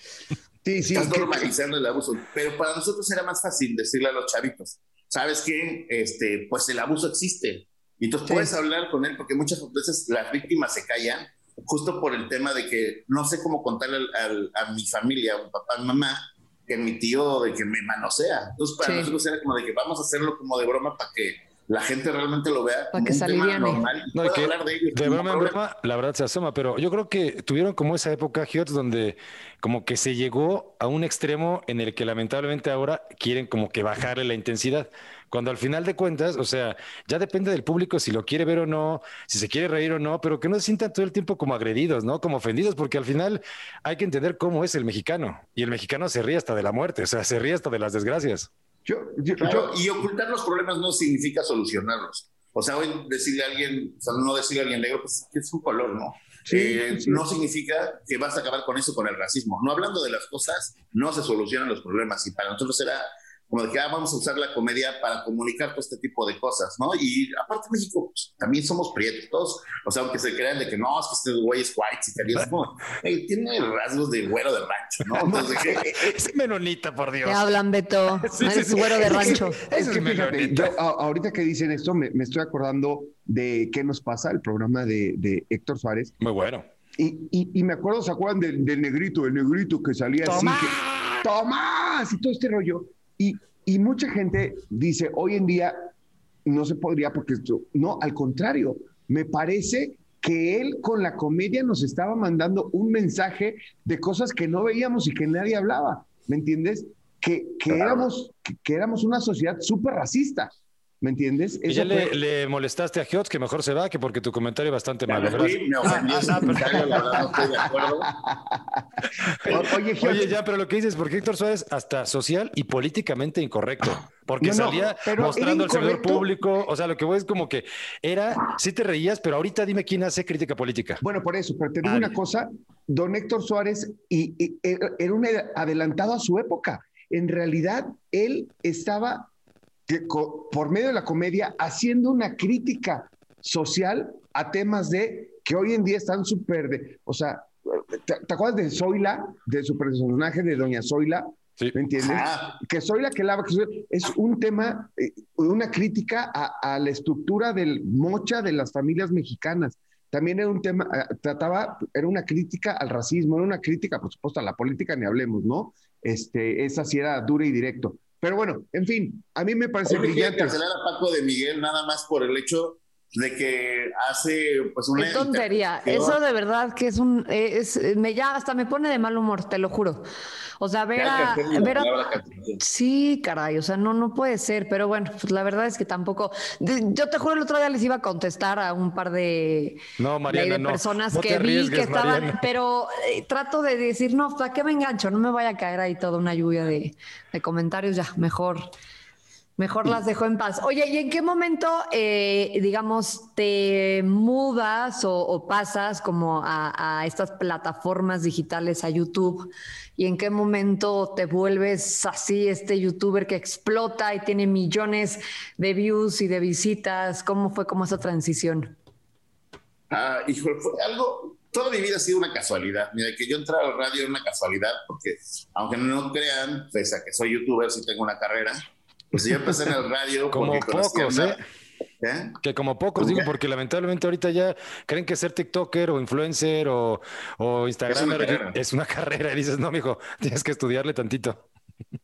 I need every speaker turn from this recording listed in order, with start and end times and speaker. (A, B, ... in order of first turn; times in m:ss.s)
0:00.6-0:01.5 A
0:00.9-0:25.6 B
0:18.8-0:19.1 C
0:22.9-0:23.8 C
0:24.2-0:48.5 D
0:48.8-0:49.8 A
0:49.4-1:15.8 B
0:56.5-0:57.2 A
1:15.1-1:17.5 D
1:15.2-1:16.2 A
1:17.2-1:19.6 C
1:18.2-1:20.8 D
1:19.0-1:26.1 A
1:26.2-1:26.7 D
1:27.0-1:35.9 A
1:30.2-1:31.3 D
1:36.4-1:52.2 A
1:47.7-1:48.1 B
1:51.7-1:57.4 D
1:55.1-1:58.1 B
1:55.9-1:58.9 A
1:59.4-2:11.0 D
1:59.4-2:00.3 A
2:04.4-2:06.3 A
2:11.0-2:19.3 A
2:11.8-2:12.1 D
2:19.9-2:50.6 A
2:32.0-2:32.6 B
2:49.9-2:56.2 B
2:55.0-3:00.1 C
3:00.6-3:01.9 C
3:01.0-3:02.6 B
3:02.6-3:18.7 C
3:10.0-3:12.4 D
3:19.6-3:38.8 C
3:39.9-3:51.4 B
3:50.3-3:51.4 D
3:52.0-3:52.4 B
3:52.4-4:01.4 D
3:53.0-3:53.3 B
3:57.9-3:58.6 B